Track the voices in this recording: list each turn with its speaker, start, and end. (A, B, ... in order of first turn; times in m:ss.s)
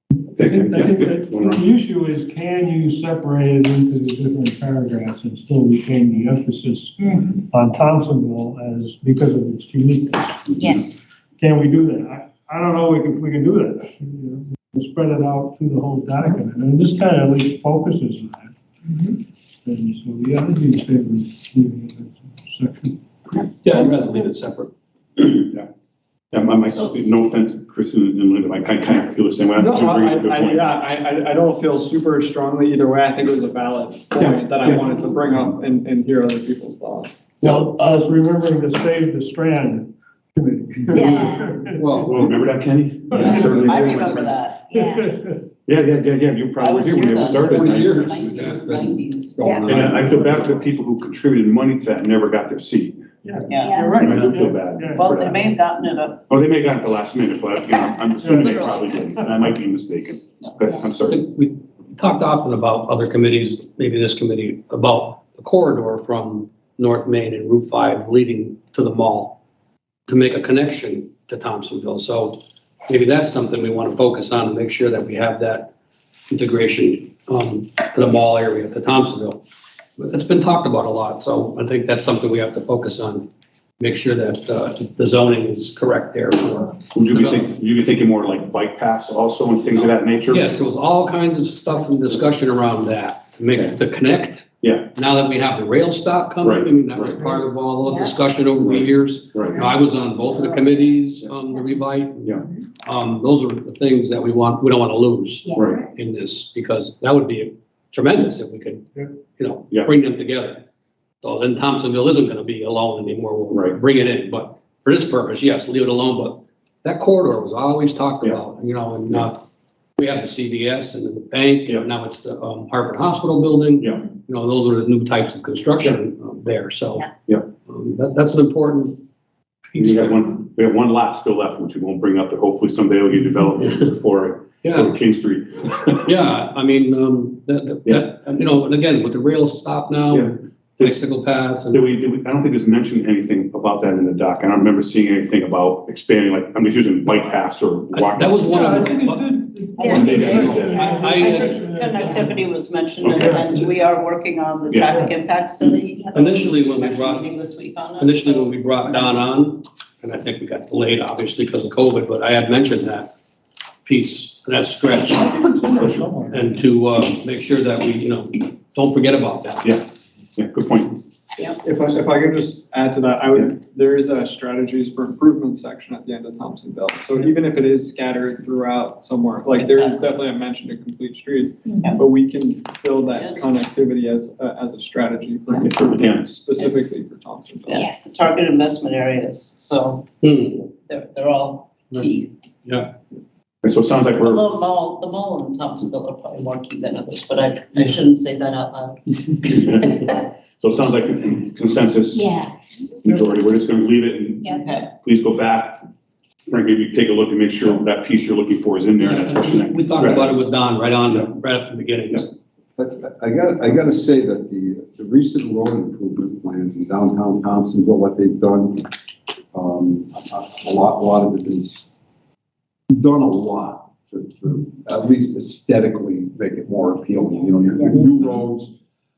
0:00.3-0:01.6 A
0:00.4-0:10.7 B
0:07.0-0:07.4 C
0:10.5-0:10.9 C
0:11.4-0:23.4 B
0:23.6-0:24.7 D
0:23.7-0:24.1 C
0:25.2-0:25.7 A
0:26.3-0:30.7 A
0:29.6-0:37.5 E
0:34.2-0:34.8 A
0:34.6-0:35.0 F
0:37.5-0:42.0 B
0:40.9-0:41.6 C
0:41.8-0:42.5 G
0:42.0-0:44.3 A
0:43.1-0:43.7 B
0:43.1-0:44.4 G
0:43.2-0:44.8 F
0:44.7-0:45.2 C
0:44.7-0:45.4 B
0:45.6-0:48.2 A
0:46.6-0:49.5 F
0:47.2-0:50.7 G
0:49.4-0:49.6 C
0:49.6-0:53.1 A
0:53.2-0:55.1 B
0:53.5-0:53.9 F
0:53.6-0:53.9 C
0:54.0-0:55.4 A
0:55.0-0:56.2 F
0:56.3-1:01.2 A
0:58.2-0:59.1 F
0:58.2-0:58.6 B
1:01.0-1:09.4 D
1:10.1-1:15.7 D
1:16.3-1:19.4 D
1:20.0-1:23.3 D
1:23.8-1:27.5 D
1:26.9-1:30.5 A
1:30.3-1:42.3 D
1:34.6-1:34.9 A
1:36.4-1:37.4 A
1:37.8-1:38.1 C
1:38.6-1:39.6 A
1:39.5-1:40.8 C
1:42.8-1:50.6 D
1:45.4-1:45.9 C
1:45.5-1:45.8 A
1:51.2-1:59.4 D
1:53.5-1:53.8 A
2:00.0-2:07.0 D
2:03.8-2:04.0 A
2:07.7-2:09.0 D
2:09.7-2:10.2 D
2:09.8-2:16.0 A
2:14.6-2:14.9 D
2:16.0-2:21.8 D
2:20.1-2:21.0 A
2:21.7-2:28.8 A
2:27.9-2:29.2 D
2:28.4-2:32.4 B
2:29.8-2:30.9 C
2:29.8-2:31.0 A
2:30.1-2:31.5 D
2:31.0-2:38.5 F
2:33.0-2:33.5 A
2:34.7-2:35.0 A
2:36.1-2:37.2 D
2:38.0-2:43.1 D
2:43.8-2:45.4 D
2:45.2-2:46.5 B
2:46.3-2:49.7 D
2:50.3-2:51.0 A
2:51.4-3:07.8 E
2:59.5-3:00.0 F
3:01.6-3:02.0 C
3:03.0-3:03.5 F
3:05.6-3:06.4 A
3:07.7-3:10.1 F
3:10.2-3:10.7 D
3:10.8-3:12.3 F
3:12.6-3:12.9 D
3:13.6-3:14.4 A
3:14.2-3:20.2 F
3:19.4-3:22.3 A
3:22.1-3:22.5 C
3:23.0-3:25.8 A
3:24.4-3:24.9 F
3:26.5-3:30.4 A
3:29.0-3:32.2 D
3:32.8-3:38.9 G
3:39.5-3:41.9 G
3:42.9-3:48.7 G